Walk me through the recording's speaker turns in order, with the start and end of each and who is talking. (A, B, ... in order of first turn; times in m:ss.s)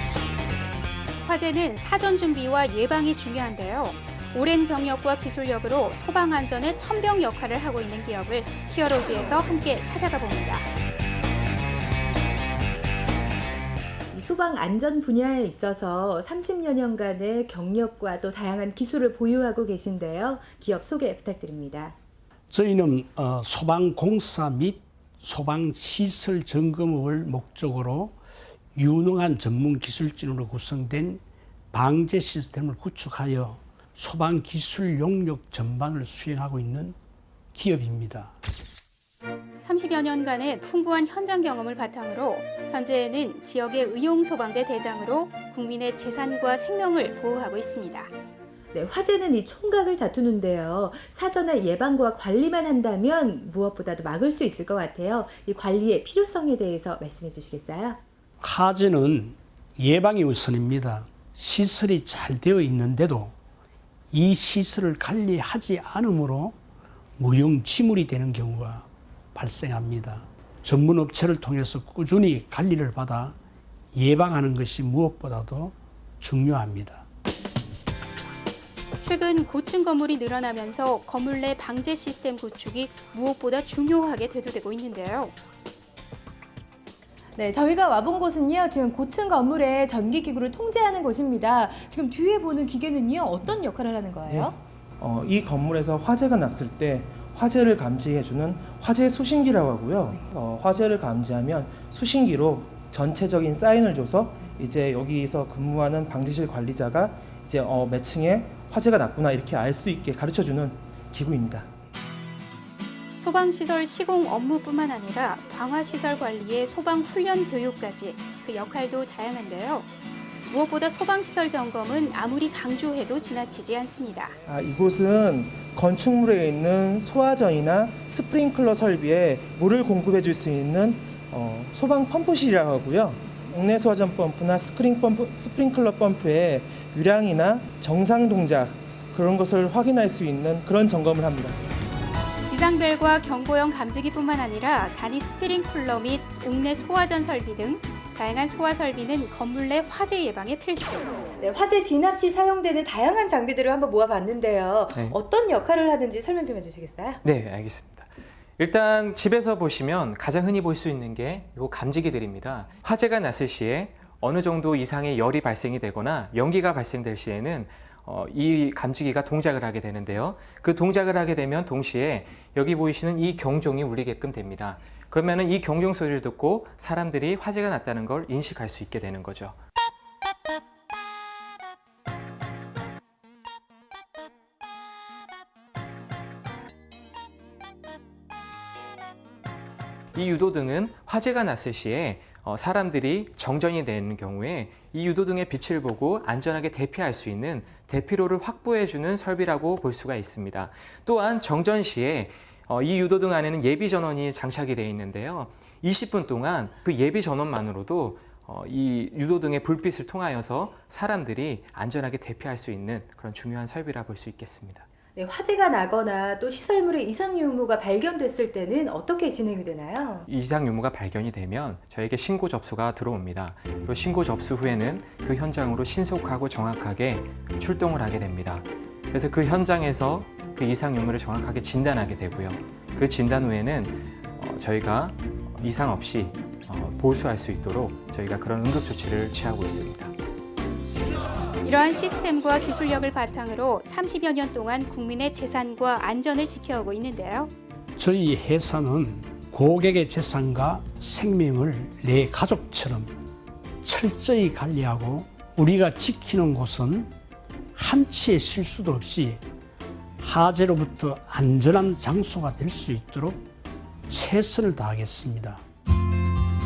0:01.2-0:10.7 A
0:14.1-0:22.0 B
0:22.5-0:28.2 C
0:28.8-0:37.0 C
0:37.5-0:38.4 C
0:39.6-0:48.1 A
0:48.7-0:58.0 B
0:58.4-1:03.3 C
1:04.1-1:06.6 C
1:07.2-1:13.4 C
1:13.9-1:17.0 C
1:19.0-1:25.4 A
1:27.4-1:34.6 B
1:34.3-1:51.7 D
1:53.2-1:59.9 A
2:00.5-2:04.4 A
2:04.5-2:21.6 D
2:22.5-2:31.2 A
2:31.4-2:37.2 B
2:37.2-2:59.6 E
3:10.1-3:34.9 E
3:35.2-3:40.3 B
3:40.2-4:00.1 E
4:01.6-4:07.5 A
4:08.0-4:13.1 C
4:13.8-4:17.1 C
4:17.8-4:19.4 C
4:20.2-4:23.4 C
4:24.1-4:25.6 C